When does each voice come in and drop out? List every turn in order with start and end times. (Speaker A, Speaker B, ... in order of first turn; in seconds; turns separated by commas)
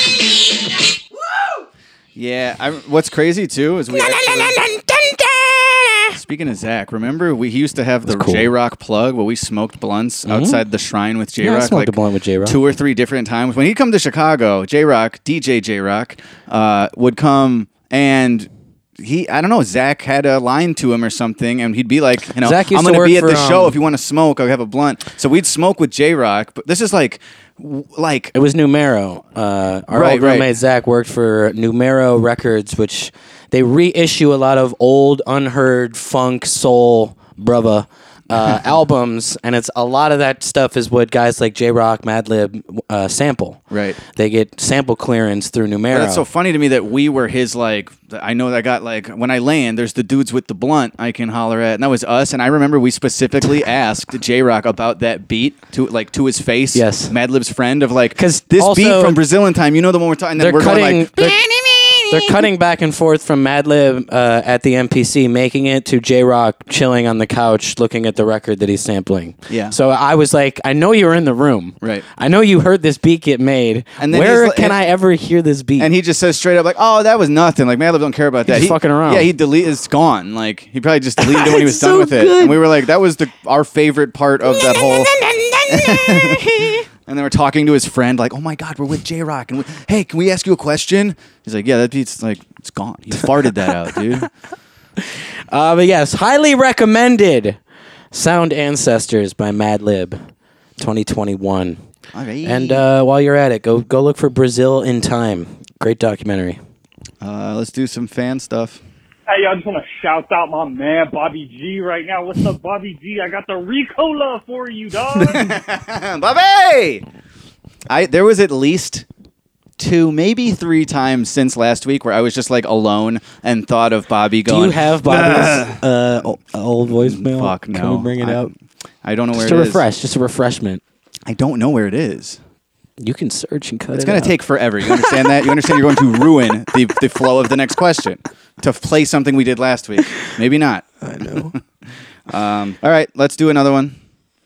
Speaker A: 2.1-4.6, Speaker B: 4.7-5.8, Speaker A: 6.1-28.3, Speaker B: 8.1-8.5, Speaker B: 10.2-10.6, Speaker B: 11.4-12.6, Speaker B: 22.4-23.8, Speaker B: 28.3-46.2, Speaker A: 29.9-30.5, Speaker A: 43.7-44.0, Speaker A: 45.9-62.0, Speaker B: 56.7-57.1, Speaker B: 58.2-59.2, Speaker B: 60.4-61.4, Speaker B: 62.1-75.9, Speaker A: 69.5-69.8, Speaker A: 74.0-74.8, Speaker A: 75.8-85.1, Speaker B: 78.5-79.3, Speaker B: 81.2-82.6, Speaker B: 84.5-86.8, Speaker A: 85.7-94.3, Speaker B: 93.1-93.7, Speaker B: 95.1-97.6, Speaker B: 98.1-100.2, Speaker B: 100.8-101.8, Speaker A: 102.1-102.8, Speaker B: 102.4-106.6, Speaker A: 107.2-108.8, Speaker C: 109.3-115.6, Speaker A: 115.2-117.0, Speaker A: 117.9-119.0, Speaker A: 119.8-125.8, Speaker B: 124.5-128.5, Speaker A: 126.9-129.8, Speaker B: 129.3-130.8, Speaker A: 131.3-132.4, Speaker B: 133.0-134.4, Speaker A: 133.9-141.6, Speaker B: 134.9-135.2, Speaker B: 141.0-141.6, Speaker A: 142.3-144.0